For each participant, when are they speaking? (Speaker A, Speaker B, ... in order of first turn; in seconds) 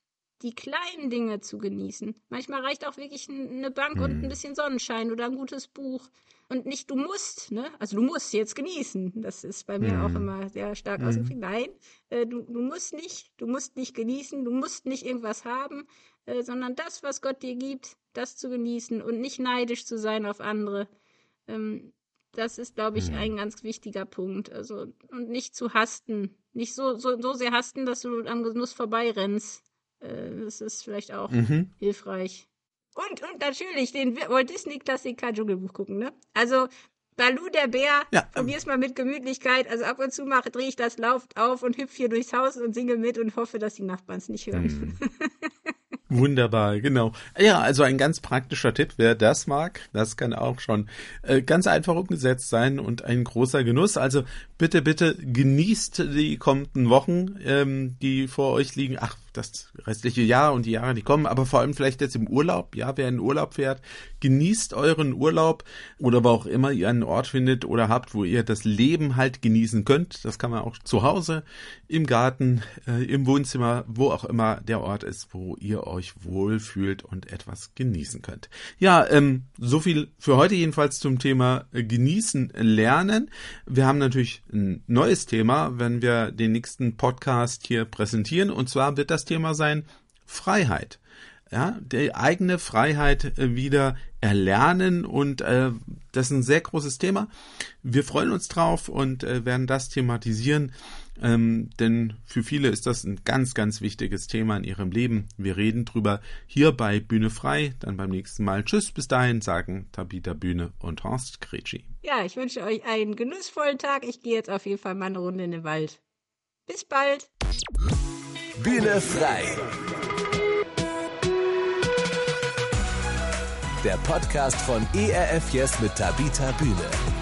Speaker A: 0.4-20.9, 21.5-45.5, 112.0-116.0, 116.7-117.3
Speaker B: 4.0-4.3, 9.8-10.3, 11.0-11.3, 23.0-23.3, 31.3-31.7, 38.1-38.5, 44.5-45.0, 46.1-97.3, 97.8-111.9
Speaker C: 118.6-119.7, 123.8-127.0